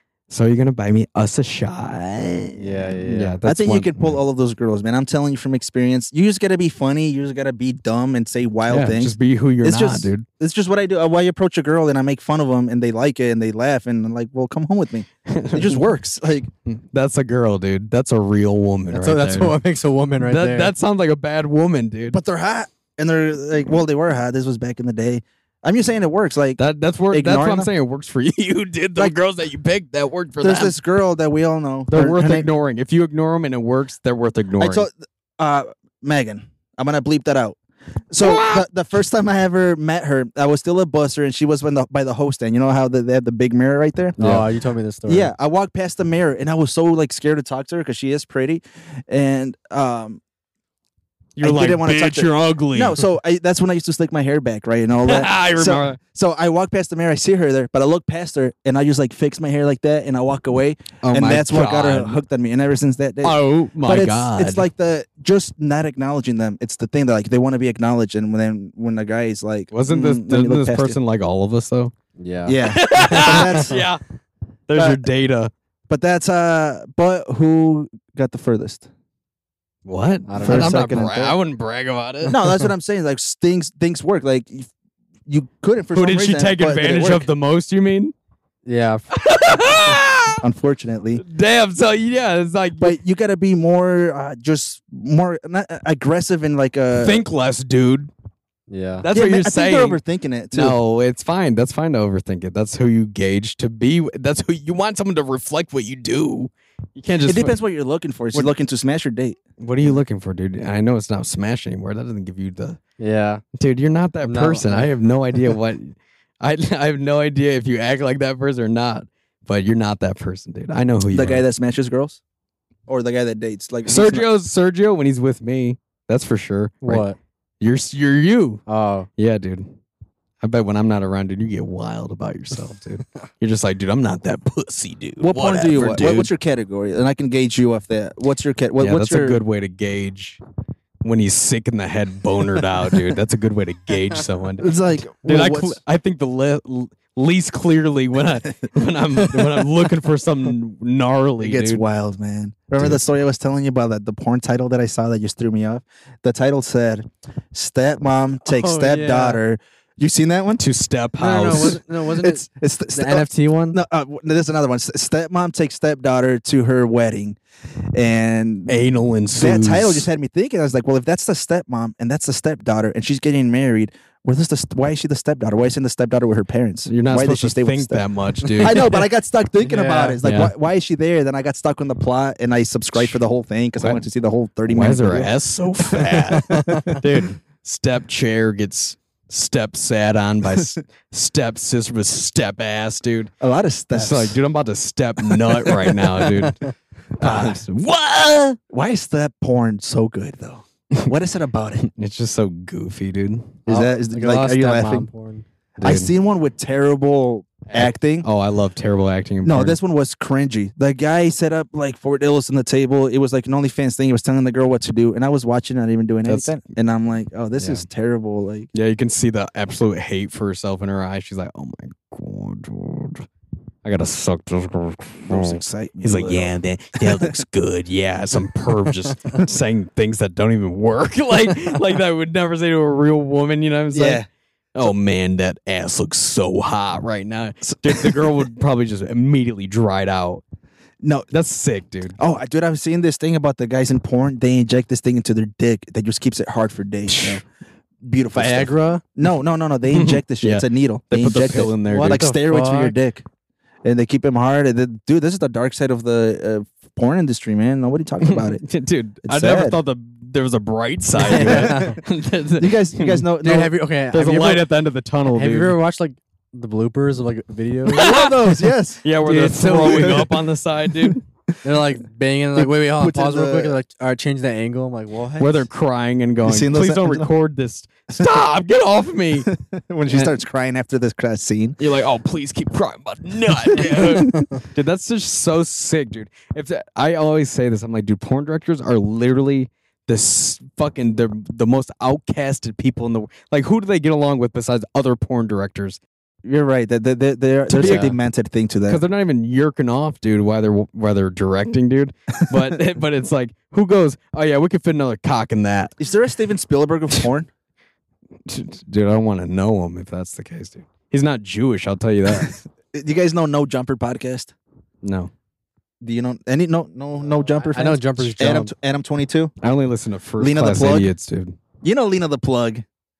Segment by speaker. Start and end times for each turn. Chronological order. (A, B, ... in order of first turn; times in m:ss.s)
0:00.3-0:04.2 A
0:02.6-0:03.4 B
0:03.4-0:16.5 C
0:08.7-0:10.3 A
0:15.3-0:15.8 A
0:16.7-0:19.6 A
0:18.9-0:20.7 B
0:20.2-0:22.2 A
0:22.1-0:27.7 C
0:26.6-0:30.8 A
0:30.4-0:32.5 C
0:31.9-0:34.9 A
0:34.6-0:37.6 C
0:38.1-0:44.2 C
0:38.2-0:38.7 A
0:44.2-0:45.3 B
0:45.1-0:50.2 C
0:51.4-0:53.0 A
0:51.4-1:11.0 C
0:55.1-0:56.0 A
1:01.0-1:02.2 A
1:03.2-1:04.7 A
1:09.7-1:11.9 A
1:12.2-1:13.6 B
1:12.5-1:13.8 C
1:12.7-1:14.0 A
1:14.7-1:15.5 A
1:14.8-1:15.0 C
1:15.9-1:18.9 C
1:19.8-1:22.4 A
1:20.3-1:20.8 B
1:20.4-1:21.4 C
1:22.3-1:24.7 C
1:25.3-1:27.3 C
1:25.9-1:28.1 A
1:28.7-1:29.1 B
1:29.1-1:30.4 A
1:29.6-1:29.9 B
1:30.4-1:31.2 C
1:31.2-1:33.0 A
1:32.8-1:37.2 C
1:37.0-1:38.1 A
1:38.7-1:39.1 B
1:39.0-1:40.0 A
1:39.1-1:40.8 C
1:40.5-1:47.6 A
1:47.3-1:50.0 C
1:49.6-1:52.8 A
1:53.0-1:53.4 B
1:53.6-2:01.4 A
1:54.2-1:54.9 B
2:01.1-2:02.2 C
2:02.9-2:04.3 C
2:03.9-2:07.1 A
2:06.8-2:07.2 B
2:07.6-2:08.6 A
2:08.7-2:09.1 B
2:09.2-2:09.7 A
2:10.4-2:16.3 A
2:15.2-2:19.4 C
2:18.8-2:20.4 A
2:21.0-2:31.8 A
2:24.6-2:25.8 C
2:31.4-2:40.6 C
2:32.8-2:33.0 A
2:38.4-2:39.4 B
2:40.6-2:41.8 A
2:41.2-2:43.8 B
2:42.1-2:47.4 C
2:47.9-2:58.0 C
2:48.7-2:50.1 A
2:56.9-2:58.9 A
2:58.6-3:07.0 C
2:58.6-2:59.0 B
2:59.6-3:00.2 B
3:00.2-3:00.5 A
3:04.7-3:13.3 A
3:06.5-3:06.9 B
3:13.4-3:14.4 C
3:13.9-3:18.6 A
3:17.2-3:17.6 C
3:18.7-3:21.9 C
3:21.9-3:23.6 A
3:23.7-3:25.4 B
3:23.7-3:25.1 C
3:25.8-3:26.1 A
3:25.8-3:28.3 C
3:27.7-3:29.8 A
3:29.4-3:38.7 C
3:36.2-3:36.6 A
3:37.6-3:37.8 B
3:38.7-3:43.3 A
3:43.8-3:54.2 A
3:45.2-3:47.4 C
3:53.9-3:54.3 C
3:54.8-4:00.4 A
3:57.7-3:58.2 C
4:01.0-4:01.3 C
4:01.3-4:02.2 A
4:02.2-4:07.4 C
4:07.1-4:07.4 A
4:08.0-4:13.2 C
4:08.4-4:09.0 B
4:09.9-4:12.3 A
4:11.9-4:13.0 B
4:13.8-4:18.6 C
4:18.2-4:23.3 A
4:19.2-4:19.8 C
4:21.2-4:22.0 C
4:21.2-4:22.0 B
4:22.6-4:23.7 C
4:23.4-4:24.7 B
4:24.1-4:25.8 A
4:25.3-4:28.0 B
4:27.9-4:30.4 C
4:27.9-4:28.5 A
4:29.0-4:31.2 A
4:29.4-4:30.2 B
4:31.6-4:35.7 B
4:32.6-4:33.8 C
4:35.4-4:39.5 A
4:36.4-4:37.3 C
4:39.5-4:41.8 C
4:41.8-4:56.0 A
4:43.7-4:44.4 C
4:56.4-4:59.0 C
4:57.7-4:58.2 A
4:58.9-5:06.0 A
5:06.0-5:07.5 C
5:08.5-5:12.6 A
5:12.3-5:14.5 C
5:15.0-5:15.3 A
5:16.0-5:19.5 C
5:17.4-5:18.7 B
5:19.6-5:21.6 A
5:20.4-5:21.1 C
5:21.8-5:22.8 C